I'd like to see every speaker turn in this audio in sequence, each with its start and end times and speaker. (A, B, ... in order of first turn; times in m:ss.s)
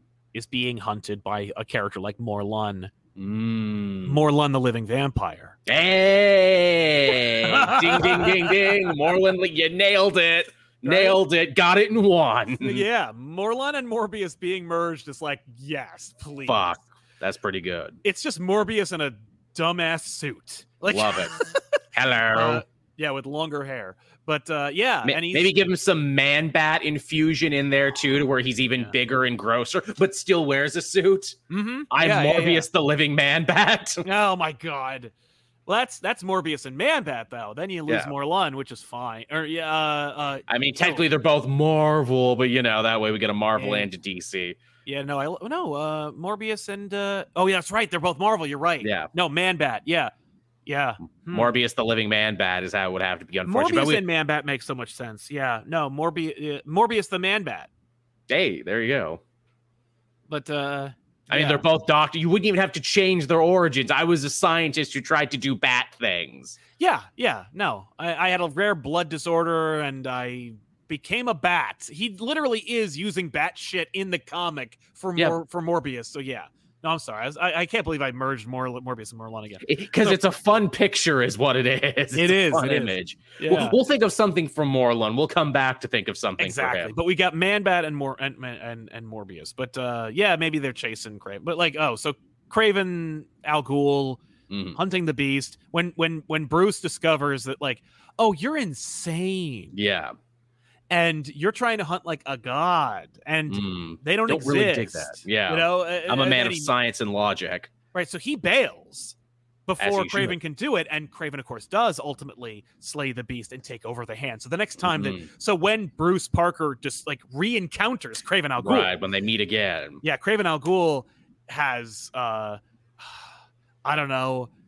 0:00.3-0:02.9 A
0:03.2-0:04.2 B
0:04.0-0:05.6 A
0:05.7-0:12.8 B
0:07.2-0:08.9 A
0:10.8-0:11.2 A
0:12.6-0:16.8 A
0:16.5-0:18.0 B
0:18.0-0:21.6 A
0:20.9-0:21.4 B
0:21.9-0:22.6 B
0:22.3-0:25.6 A
0:25.0-0:31.4 B
0:31.5-0:32.7 A
0:31.9-0:34.0 B
0:34.0-0:35.1 A
0:35.7-0:41.1 A
0:37.9-0:38.1 B
0:40.5-0:44.6 B
0:43.6-0:43.9 A
0:44.8-0:50.1 A
0:48.8-0:49.1 B
0:50.7-0:51.5 A
0:51.3-0:54.0 B
0:53.4-0:57.7 A
0:58.3-0:59.2 B
1:00.3-1:01.6 A
1:01.3-1:06.6 B
1:06.8-1:20.2 A
1:19.6-1:26.9 B
1:22.1-1:23.8 A
1:26.4-1:34.2 A
1:34.5-1:34.8 B
1:34.8-1:39.7 A
1:39.7-1:40.1 B
1:40.9-1:46.7 A
1:43.5-1:47.7 B
1:47.9-1:49.2 A
1:49.7-1:58.9 A
1:49.8-1:50.4 B
1:54.8-1:55.3 B
1:58.6-2:00.0 B
2:00.0-2:03.3 A
2:03.8-2:04.5 A